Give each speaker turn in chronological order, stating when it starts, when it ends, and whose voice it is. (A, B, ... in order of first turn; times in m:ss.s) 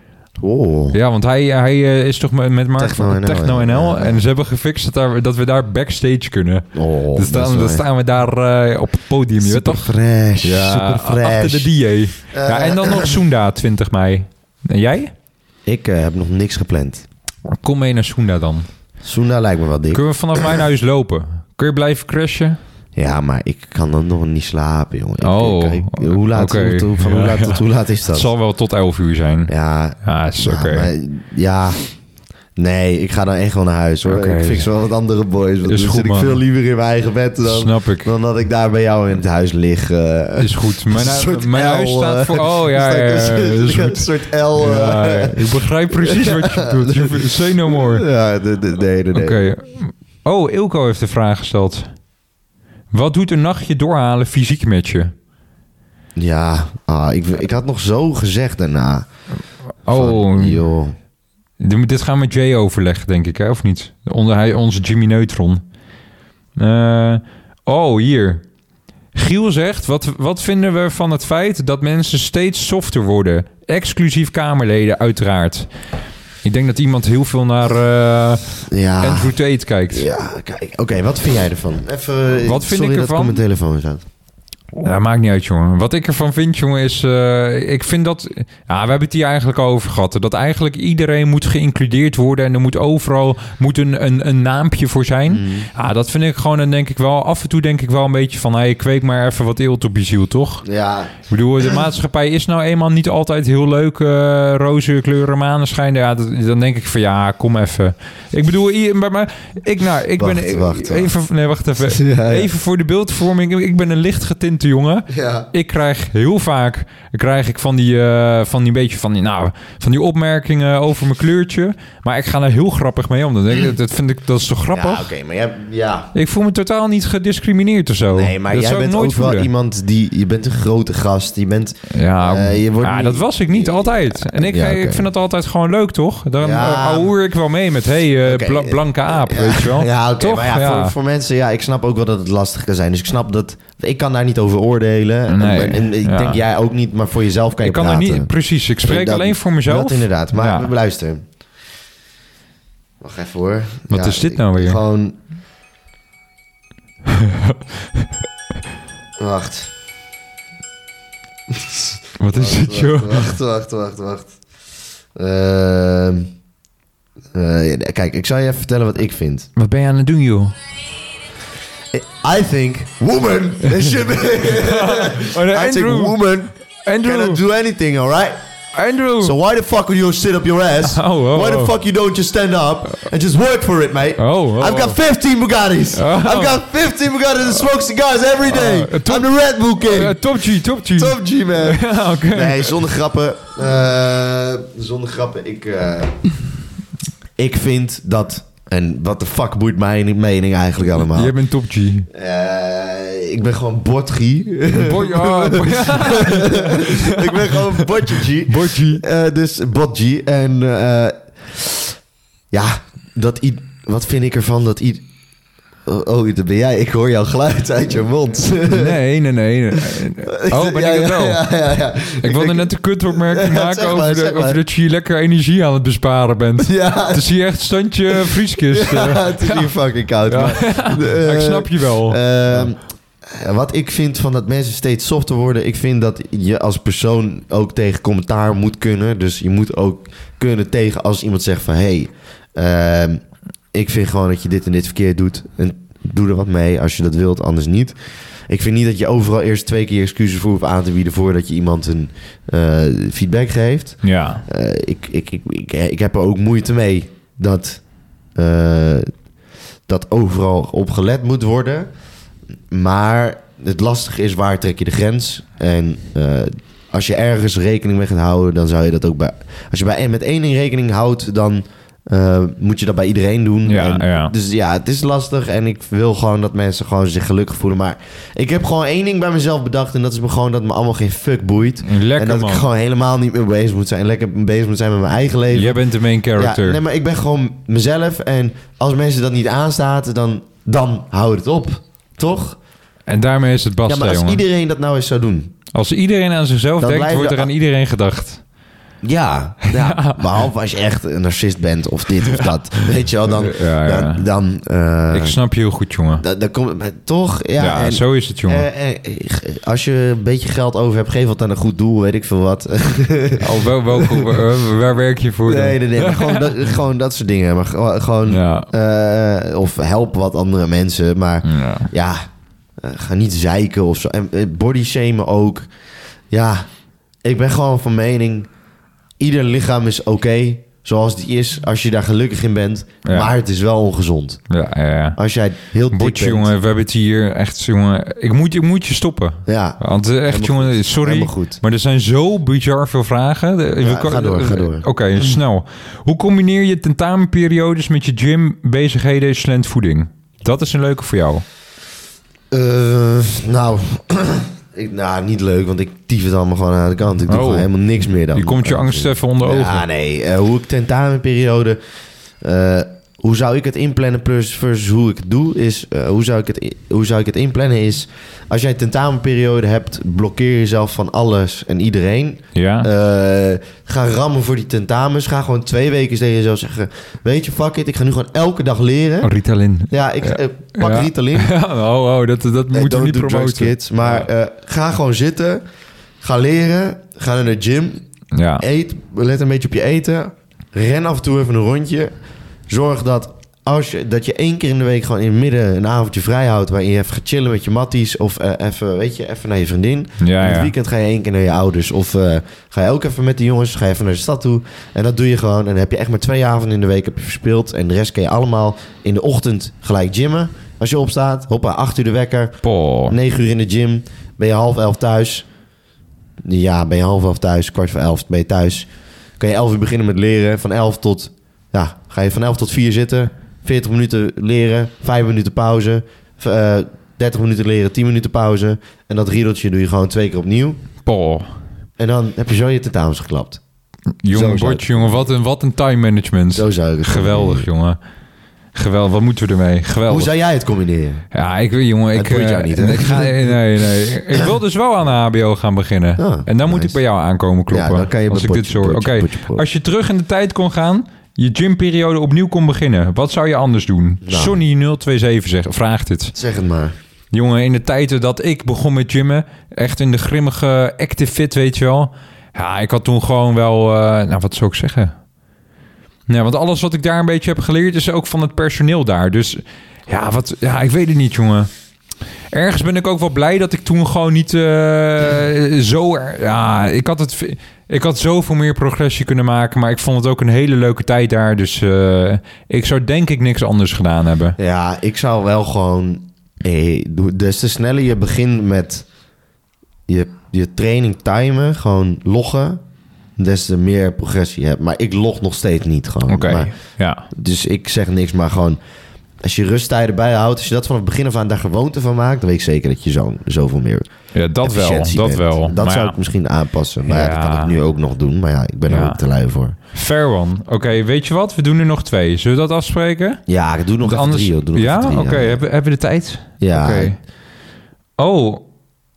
0:00.4-0:01.0 A
0:00.9-0:15.1 B
0:02.8-0:04.2 A
0:06.7-0:07.8 A
0:09.4-0:11.7 A
0:12.3-0:13.2 A
0:15.6-0:17.0 A
0:17.5-0:18.7 B
0:19.0-0:20.6 A
0:19.9-0:22.6 B
0:23.0-0:28.3 A
0:25.2-0:29.5 B
0:29.5-0:31.8 A
0:30.0-0:30.9 B
0:32.6-0:49.4 A
0:34.0-0:34.7 B
0:35.6-0:36.4 B
0:37.4-0:38.1 B
0:40.4-0:48.0 B
0:49.1-0:51.9 B
0:52.9-0:55.1 B
0:56.2-0:59.1 A
0:59.8-1:00.6 B
0:59.9-1:00.9 A
1:01.6-1:05.6 B
1:06.6-1:08.4 B
1:09.1-1:15.7 B
1:16.4-1:20.1 B
1:18.7-1:19.3 A
1:19.9-1:24.0 A
1:22.4-1:23.4 B
1:24.8-1:40.6 B
1:35.3-1:35.7 A
1:40.6-1:41.1 A
1:41.3-2:05.1 B
1:50.2-1:51.1 A
1:51.8-1:52.5 A
1:55.1-1:55.5 A
2:04.7-2:06.1 A
2:06.1-2:09.5 B
2:08.1-2:15.1 A
2:11.9-2:20.9 B
2:16.4-2:17.1 A
2:18.2-2:28.3 A
2:25.3-2:26.4 B
2:27.6-2:30.7 B
2:28.8-2:31.2 A
2:33.0-2:35.2 A
2:33.9-2:34.8 B
2:37.1-2:38.0 B
2:39.2-2:39.7 A
2:41.5-2:44.4 A
2:42.2-2:43.4 B
2:45.1-2:46.3 A
2:47.3-2:49.5 A
2:49.6-2:50.5 B
2:51.9-2:56.5 A
2:53.7-2:56.2 B
2:56.8-2:57.4 B
2:57.0-2:58.4 A
2:58.7-2:59.3 B
2:59.2-3:10.2 A
3:00.8-3:01.7 B
3:04.2-3:05.0 B
3:05.9-3:06.6 B
3:08.4-3:12.8 B
3:10.9-3:16.2 A
3:17.4-3:21.3 A
3:21.1-3:22.1 B
3:22.1-3:31.9 A
3:24.7-3:29.0 B
3:32.5-3:35.0 A
3:35.8-3:39.0 A
3:38.7-3:41.4 B
3:39.9-3:44.6 A
3:42.2-3:49.7 B
3:46.6-3:47.2 A
3:48.1-4:03.2 A
3:50.2-3:52.6 B
4:03.7-4:07.9 A
4:08.5-4:17.8 A
4:14.0-4:14.4 B
4:18.4-4:19.1 A
4:19.9-4:21.9 A
4:22.7-4:45.8 A
4:33.6-4:34.3 B
4:41.8-4:42.6 B
4:45.5-4:46.8 B
4:46.4-4:52.6 A
4:53.1-4:54.4 B
4:53.9-4:55.5 A
4:55.7-4:58.4 B
4:56.8-4:57.5 A
4:59.0-5:05.4 A
4:59.6-5:00.4 B
5:02.3-5:04.2 B
5:05.1-5:06.2 B
5:06.2-5:14.4 A
5:07.6-5:08.6 B
5:13.4-5:16.7 B
5:15.4-5:22.2 A
5:18.3-5:18.7 B
5:21.4-5:21.9 B
5:22.8-5:25.7 A
5:26.3-5:26.6 A
5:27.2-5:28.5 A
5:29.2-5:34.4 A
5:33.0-5:33.3 B
5:34.5-5:35.2 B
5:35.2-5:36.5 A
5:35.9-5:51.4 B
5:39.5-5:41.6 A
5:43.8-5:45.4 A
5:52.5-6:01.8 A
5:57.3-5:57.7 B
5:58.3-5:59.8 B
6:02.4-6:19.3 A
6:12.5-6:12.9 B
6:19.2-6:24.3 B
6:19.9-6:21.5 A
6:22.7-6:25.6 A
6:26.2-6:28.0 A
6:28.3-6:28.6 B
6:28.6-6:32.1 A
6:32.7-6:55.5 A
6:40.2-6:40.7 B
6:52.6-6:53.2 B
6:56.4-6:58.9 A
6:59.4-7:10.8 A
7:11.0-7:11.5 B
7:12.0-7:13.6 A
7:14.2-7:18.0 B
7:14.3-7:15.3 A
7:16.5-7:17.7 A
7:18.7-7:20.3 B
7:20.1-7:21.2 A
7:21.3-7:36.3 B
7:22.1-7:23.6 A
7:26.2-7:27.0 A
7:27.7-7:29.6 A
7:34.2-7:34.6 A
7:36.3-7:36.9 A
7:37.3-7:45.1 B
7:46.3-7:51.7 B
7:52.5-8:04.6 B
8:04.6-8:09.0 A
8:10.1-8:12.8 A
8:13.4-8:16.7 A
8:16.3-8:17.3 B
8:17.3-8:18.8 A
8:19.4-8:24.1 A
8:24.3-8:26.2 B
8:24.6-8:29.8 A
8:27.1-8:27.8 B
8:28.9-8:29.2 B
8:29.9-8:33.4 B
8:33.5-8:35.6 A
8:34.0-8:37.2 B
8:36.6-8:37.1 A
8:38.2-8:38.6 B